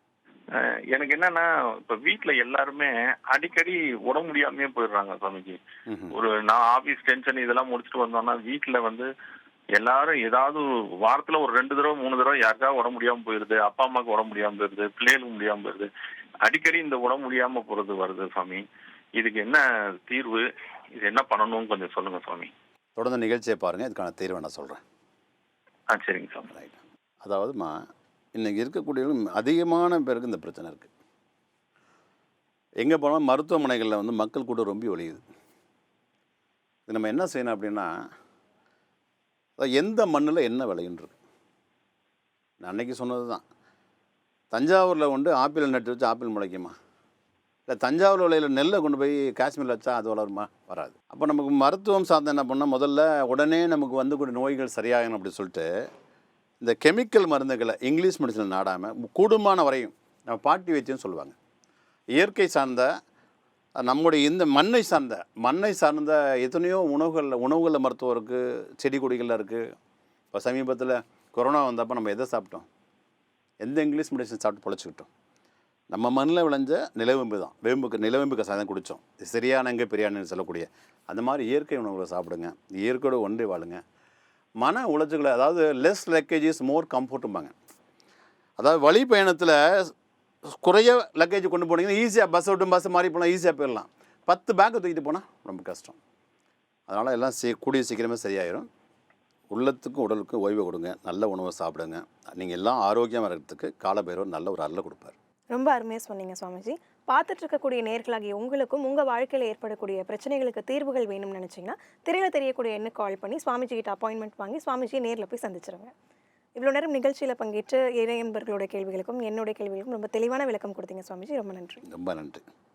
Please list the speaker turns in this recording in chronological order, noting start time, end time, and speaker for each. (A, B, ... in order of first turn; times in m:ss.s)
0:00.5-0:05.6 A
0:05.9-0:06.2 B
0:06.1-0:09.1 A
0:09.8-0:15.9 A
0:16.4-0:18.6 A
0:19.2-0:20.4 A
0:21.0-0:22.5 A
0:23.0-0:24.8 B
0:25.9-0:26.5 A
0:26.5-0:27.8 B
0:28.3-0:30.9 B
0:32.8-0:35.2 B
0:36.9-0:37.9 B
0:39.6-0:41.1 B
0:42.6-0:43.4 B
0:44.5-0:46.7 B
0:47.7-0:55.7 B
0:56.6-1:01.4 B
1:02.1-1:02.9 B
1:03.8-1:09.6 B
1:10.3-1:12.7 B
1:13.6-1:15.1 B
1:15.9-1:23.8 B
1:24.6-1:27.5 B
1:28.6-1:29.9 B
1:30.5-1:36.0 B
1:36.9-1:38.7 B
1:39.5-1:45.1 B
1:45.5-1:55.9 C
1:56.6-2:01.8 C
2:01.8-2:02.4 B